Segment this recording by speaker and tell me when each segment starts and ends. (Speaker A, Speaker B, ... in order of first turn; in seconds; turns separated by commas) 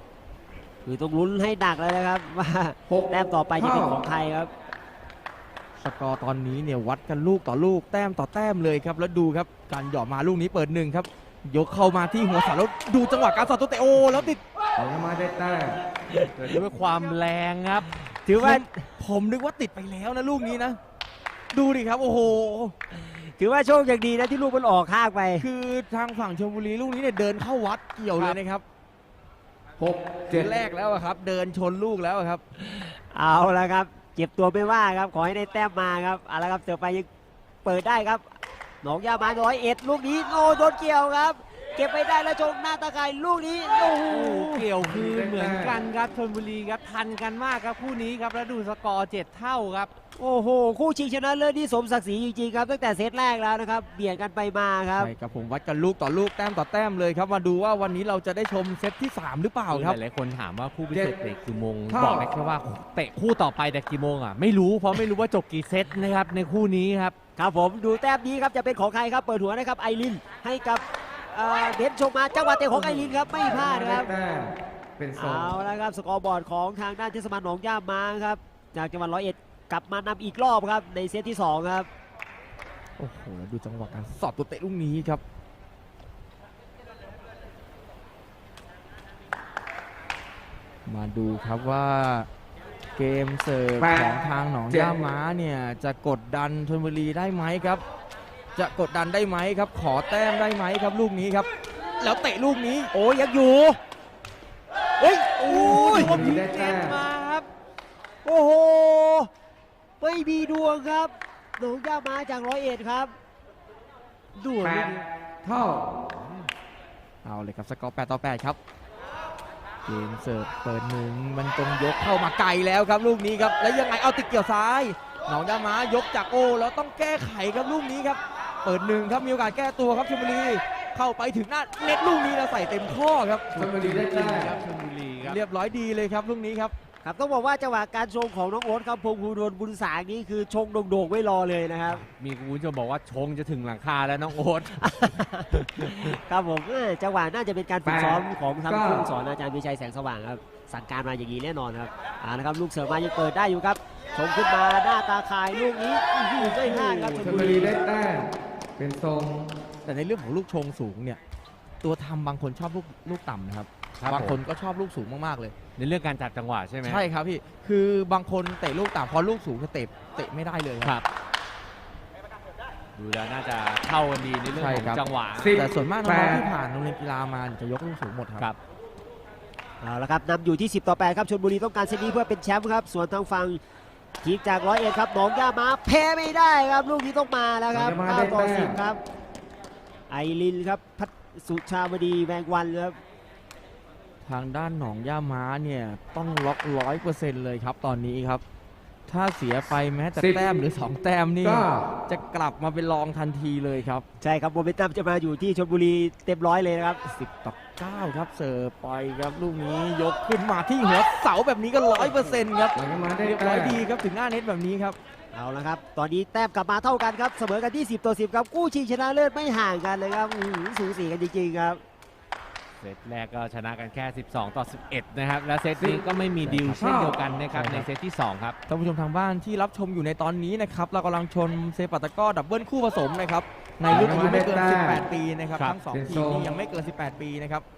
Speaker A: 0.8-4.5, Speaker B: 2.9-4.0, Speaker C: 5.8-14.4, Speaker B: 14.8-15.8, Speaker A: 16.1-16.6, Speaker D: 16.4-17.9, Speaker A: 18.1-18.8, Speaker C: 18.3-20.8, Speaker C: 21.5-22.7, Speaker A: 22.9-25.4, Speaker C: 25.4-28.6, Speaker B: 29.8-30.5, Speaker C: 30.3-32.4, Speaker A: 32.5-37.1, Speaker A: 37.6-38.3, Speaker A: 38.8-44.6, Speaker D: 44.1-49.9, Speaker B: 44.8-45.8, Speaker A: 50.2-55.1, Speaker C: 55.0-60.0, Speaker D: 59.7-67.1, Speaker B: 60.9-61.2, Speaker B: 61.9-62.3, Speaker A: 67.4-74.1, Speaker B: 72.7-75.6, Speaker A: 75.2-81.9, Speaker C: 83.0-85.2, Speaker C: 90.8-92.3, Speaker C: 93.0-97.8, Speaker B: 93.8-94.9, Speaker C: 98.5-101.5, Speaker C: 102.0-102.9, Speaker A: 102.9-103.8, Speaker A: 105.0-106.1, Speaker D: 105.4-107.5, Speaker B: 105.8-107.0, Speaker A: 108.2-109.3, Speaker A: 110.0-113.1, Speaker D: 114.3-115.0, Speaker B: 114.6-116.0, Speaker D: 116.2-116.5, Speaker C: 117.2-118.6, Speaker C: 119.8-133.7, Speaker B: 133.5-134.6, Speaker D: 133.6-135.4, Speaker C: 135.2-136.7, Speaker A: 137.0-142.0, Speaker D: 141.8-145.1, Speaker A: 144.8-157.7, Speaker B: 147.8-149.1, Speaker C: 156.4-157.6, Speaker B: 157.2-159.6, Speaker C: 159.8-161.2, Speaker C: 161.8-165.5, Speaker D: 164.0-164.4, Speaker D: 165.8-167.0, Speaker C: 166.8-170.9, Speaker D: 172.9-175.5, Speaker C: 174.5-178.5, Speaker B: 175.4-176.4, Speaker A: 179.8-183.6, Speaker A: 184.2-189.0, Speaker B: 187.7-188.8, Speaker A: 190.1-193.0, Speaker C: 194.2-198.4, Speaker C: 199.1-204.0, Speaker B: 200.2-200.5, Speaker B: 201.4-201.9, Speaker A: 204.2-207.0, Speaker C: 207.1-215.0, Speaker A: 212.0-212.4, Speaker B: 212.7-213.8, Speaker A: 215.3-221.8, Speaker D: 222.8-228.6, Speaker B: 225.8-227.2, Speaker C: 226.4-226.8, Speaker C: 227.5-227.9, Speaker C: 228.7-237.6, Speaker B: 233.9-235.0, Speaker B: 235.9-236.5